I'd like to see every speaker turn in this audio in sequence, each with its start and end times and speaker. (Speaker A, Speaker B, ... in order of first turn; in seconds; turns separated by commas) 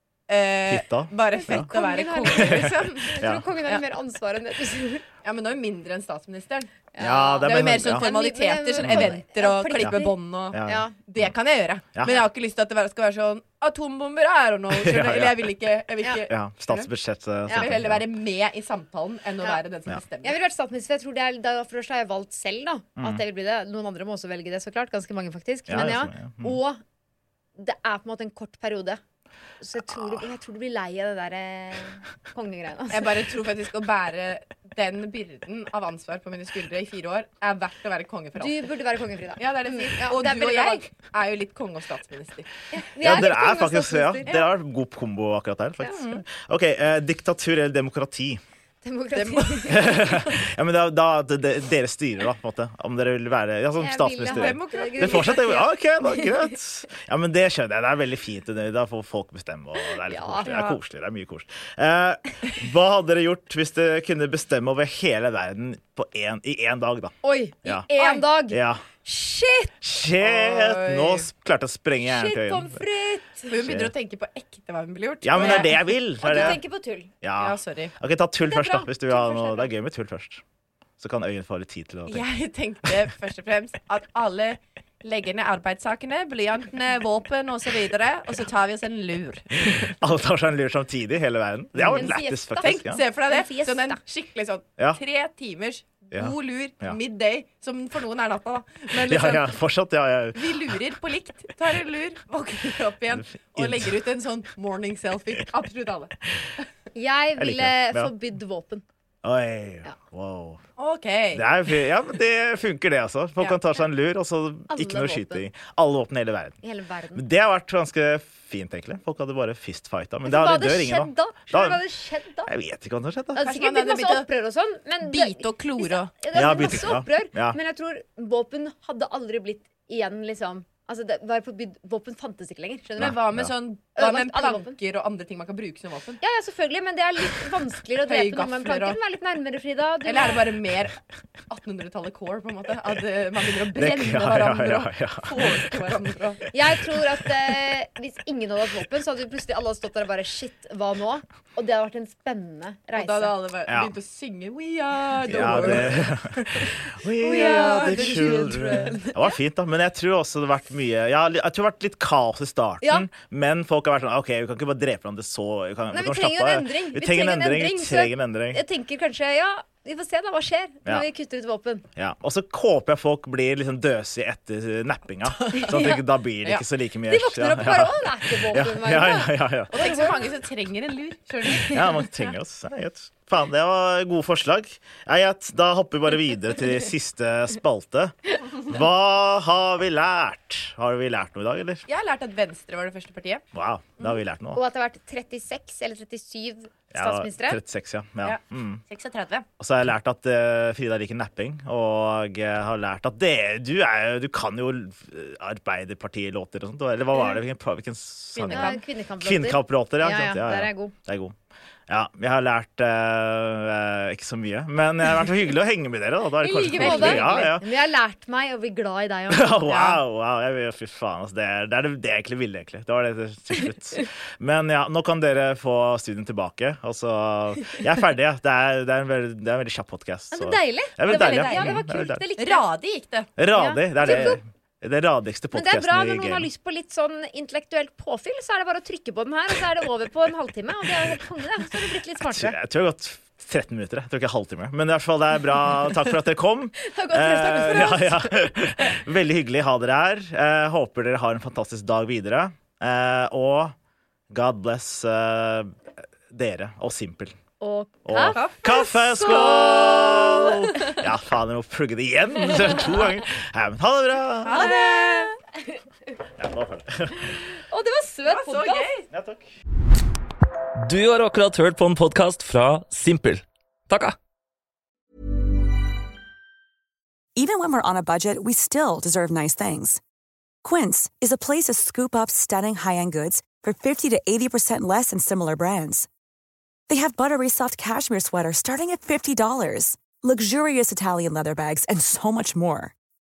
Speaker A: 0.3-3.8, Speaker B: 0.7-1.7, Speaker C: 1.4-5.0, Speaker B: 2.3-3.5, Speaker A: 5.2-6.7, Speaker C: 7.0-10.9, Speaker B: 7.0-8.1, Speaker A: 7.4-16.9, Speaker B: 8.8-9.1, Speaker B: 9.8-11.3, Speaker B: 11.9-12.2, Speaker B: 14.8-15.4, Speaker B: 16.3-18.1, Speaker A: 17.5-20.4, Speaker C: 20.2-26.8, Speaker B: 25.7-26.6, Speaker C: 27.6-29.0, Speaker C: 29.6-33.2, Speaker A: 32.9-38.7, Speaker C: 38.4-40.8, Speaker A: 39.4-42.5, Speaker C: 42.7-44.4, Speaker B: 43.0-48.4, Speaker A: 45.8-46.2, Speaker C: 48.8-50.3, Speaker A: 49.1-49.8, Speaker B: 49.7-67.9, Speaker C: 53.8-56.3, Speaker A: 54.3-55.5, Speaker C: 60.0-60.5, Speaker A: 60.4-60.8, Speaker C: 67.2-69.7, Speaker A: 68.0-68.2, Speaker B: 68.5-68.8, Speaker B: 69.8-72.8, Speaker A: 70.2-71.3, Speaker C: 72.0-73.5, Speaker A: 73.5-76.6, Speaker B: 73.5-73.9, Speaker B: 75.2-76.6, Speaker C: 75.4-77.1, Speaker B: 77.2-80.4, Speaker A: 77.4-77.9, Speaker C: 78.5-79.7, Speaker B: 81.0-82.2, Speaker A: 82.1-90.0, Speaker B: 90.0-93.0, Speaker C: 91.9-94.0, Speaker A: 92.6-99.6, Speaker B: 96.1-97.0, Speaker B: 99.0-100.7, Speaker A: 100.3-106.6, Speaker B: 103.1-103.9, Speaker C: 106.9-108.8, Speaker B: 107.4-108.1, Speaker B: 109.2-110.6, Speaker A: 110.8-111.5, Speaker B: 111.3-116.6, Speaker C: 114.7-115.5, Speaker C: 116.6-117.2, Speaker B: 117.2-121.8, Speaker C: 120.2-122.5, Speaker B: 122.5-123.4, Speaker C: 123.3-133.2, Speaker A: 123.4-124.3, Speaker A: 125.0-126.1, Speaker B: 126.3-127.6, Speaker B: 133.0-133.5, Speaker A: 133.0-136.2, Speaker C: 134.0-134.8, Speaker C: 136.2-140.5, Speaker A: 138.0-139.0, Speaker A: 140.0-141.0, Speaker A: 141.5-146.4, Speaker B: 143.8-145.8, Speaker C: 146.5-153.4, Speaker A: 152.9-156.8, Speaker B: 153.7-153.9, Speaker C: 155.3-156.0, Speaker B: 155.3-168.6, Speaker C: 157.2-159.4, Speaker A: 157.3-159.0, Speaker C: 162.8-163.1, Speaker C: 165.9-171.9, Speaker B: 172.0-179.8, Speaker A: 175.4-175.8, Speaker C: 175.6-176.0, Speaker C: 177.1-180.3, Speaker A: 179.7-182.1, Speaker B: 181.7-191.9, Speaker A: 191.9-193.4, Speaker B: 193.5-194.6, Speaker C: 194.5-197.6, Speaker B: 196.9-198.8, Speaker A: 198.2-199.5, Speaker B: 199.6-211.3, Speaker A: 208.3-208.8, Speaker C: 208.5-210.9, Speaker B: 211.9-217.7, Speaker C: 216.4-219.8, Speaker A: 216.8-217.5, Speaker B: 219.3-232.3, Speaker A: 219.7-220.0, Speaker C: 230.3-232.7, Speaker A: 231.0-231.9, Speaker A: 232.4-233.3, Speaker B: 233.4-236.5, Speaker C: 233.5-234.4, Speaker C: 235.5-242.6, Speaker B: 242.3-253.7, Speaker C: 246.8-248.5, Speaker B: 254.3-255.8, Speaker B: 256.3-257.4, Speaker C: 257.6-261.0, Speaker B: 258.1-264.7, Speaker A: 258.3-260.5, Speaker A: 264.5-265.3, Speaker C: 264.5-265.8, Speaker B: 266.4-267.4, Speaker C: 267.4-268.9, Speaker A: 268.3-269.1, Speaker B: 269.1-269.5, Speaker D: 270.8-274.2, Speaker E: 277.4-280.0, Speaker E: 280.6-286.1, Speaker E: 286.9-292.9